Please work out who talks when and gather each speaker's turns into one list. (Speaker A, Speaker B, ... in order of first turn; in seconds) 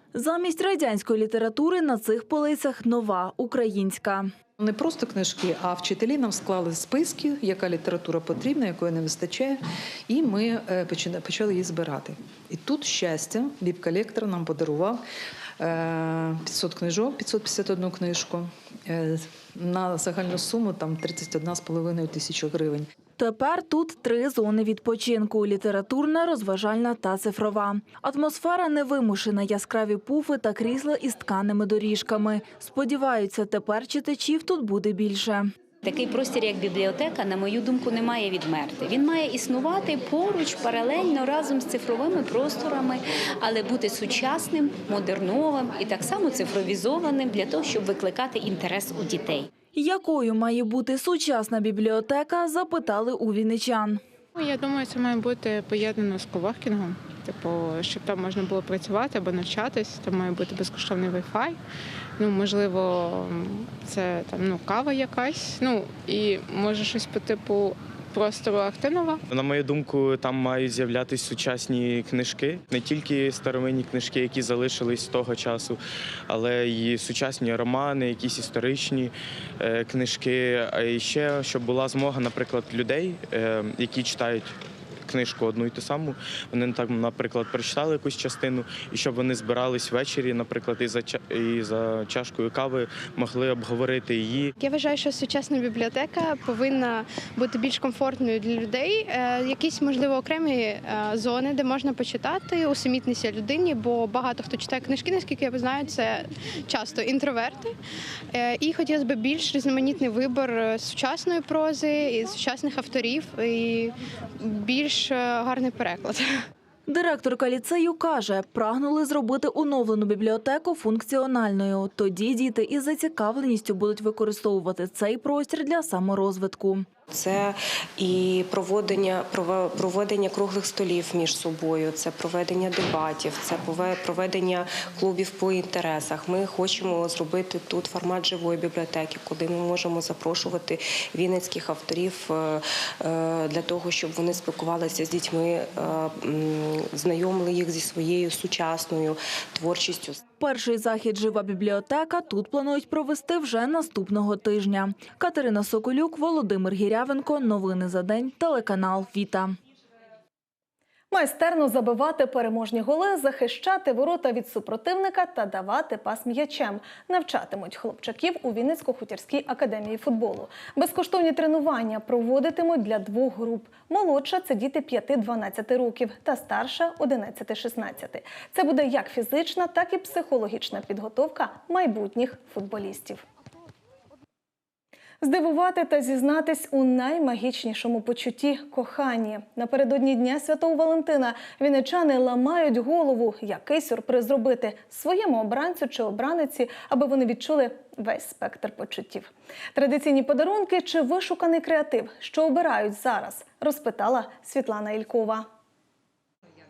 Speaker A: 0.1-4.3, 23.2-35.5, 49.7-54.0, 116.9-126.9, 150.3-159.6
Speaker B: 4.6-15.0, 15.6-22.9
Speaker C: 35.8-49.5
Speaker D: 54.3-61.6, 62.2-69.2
Speaker E: 69.3-84.5, 85.0-94.5
Speaker F: 94.6-107.7, 108.3-116.4
Speaker G: 127.1-150.2
Speaker H: 161.1-183.2, 185.2-205.5